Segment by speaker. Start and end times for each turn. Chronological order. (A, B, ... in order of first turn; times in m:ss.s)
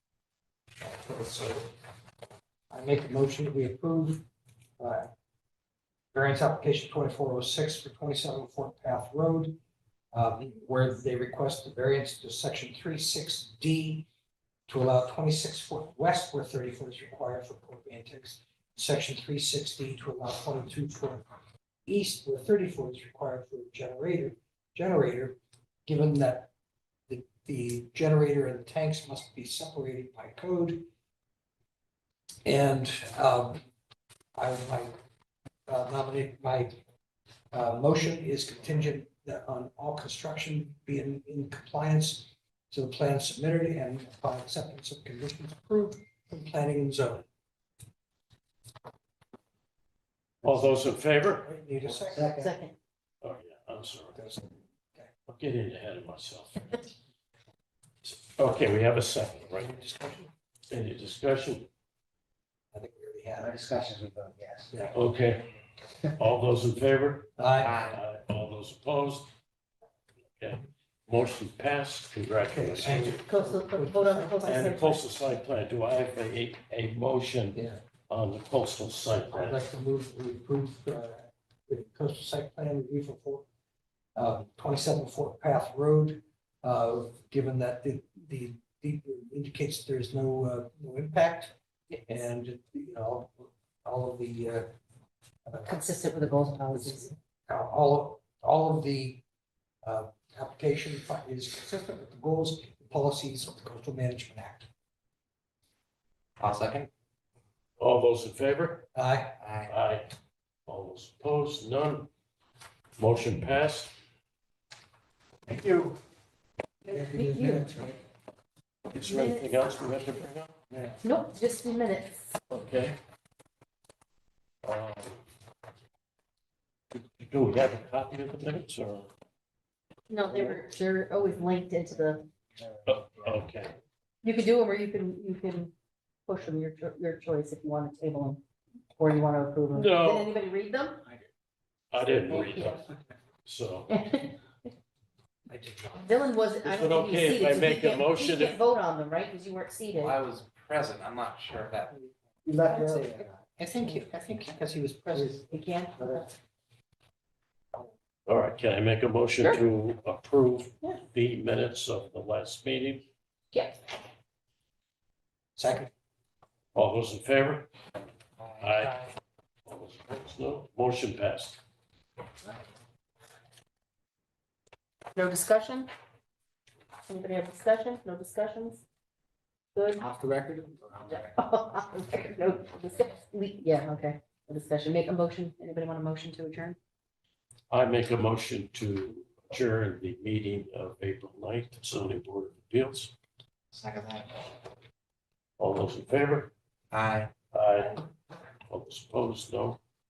0:00.8-0:01.7 A
0:02.7-0:04.2 A
0:04.8-0:05.1 A
0:06.1-0:09.6 A
0:10.1-0:14.1 A
0:14.7-0:21.2 A
0:21.9-0:26.5 A
0:27.1-0:30.9 A
0:32.4-0:33.6 A
0:34.4-0:35.0 A
0:35.7-0:36.8 A
0:37.5-0:47.2 A
0:50.4-0:51.5 B
0:51.4-0:52.5 A
0:52.2-0:52.7 C
0:53.2-0:54.2 B
0:54.1-0:55.1 A
0:55.3-0:56.9 B
0:58.0-0:59.7 B
0:59.4-1:00.3 A
1:00.7-1:01.7 B
1:02.7-1:03.9 A
1:03.4-1:04.7 D
1:04.7-1:05.0 A
1:04.9-1:05.4 B
1:06.2-1:09.3 B
1:07.4-1:07.8 A
1:07.6-1:08.0 D
1:10.4-1:13.2 B
1:12.4-1:14.8 A
1:13.3-1:15.0 C
1:14.4-1:19.6 B
1:17.5-1:17.8 A
1:19.3-1:23.4 A
1:24.2-1:34.7 A
1:35.4-1:35.8 A
1:35.6-1:37.1 C
1:36.7-1:39.2 A
1:39.8-1:44.7 A
1:46.4-1:46.9 D
1:47.8-1:48.9 B
1:48.9-1:49.4 A
1:49.4-1:49.7 D
1:49.7-1:50.1 B
1:50.7-1:52.1 B
1:53.0-1:53.9 B
1:55.5-1:55.9 B
1:56.8-1:57.8 C
1:56.9-1:58.0 A
1:58.9-2:00.5 B
1:59.0-1:59.6 C
2:00.7-2:01.0 A
2:01.0-2:02.4 C
2:02.5-2:03.0 B
2:04.6-2:05.2 B
2:06.9-2:09.1 B
2:10.1-2:12.3 C
2:12.6-2:12.9 D
2:12.8-2:13.7 B
2:14.2-2:15.7 C
2:16.3-2:18.4 C
2:18.9-2:21.0 C
2:19.7-2:20.3 B
2:21.9-2:22.9 B
2:22.3-2:22.8 C
2:23.4-2:23.9 B
2:23.9-2:24.4 C
2:25.5-2:26.3 A
2:26.0-2:30.2 C
2:26.6-2:28.6 B
2:29.9-2:31.9 D
2:32.4-2:33.9 D
2:32.6-2:33.0 A
2:33.6-2:35.4 A
2:35.5-2:36.3 C
2:38.2-2:43.1 B
2:43.5-2:43.8 C
2:45.6-2:45.9 A
2:46.7-2:47.7 B
2:48.4-2:48.7 D
2:48.6-2:49.0 B
2:49.6-2:51.6 B
2:55.1-2:55.9 C
2:57.1-2:58.8 C
2:59.7-3:00.1 C
3:00.0-3:01.3 D
3:01.1-3:06.8 C
3:07.7-3:13.1 B
3:13.7-3:14.5 D
3:15.6-3:16.5 B
3:16.9-3:17.3 D
3:17.5-3:18.0 B
3:18.7-3:19.8 B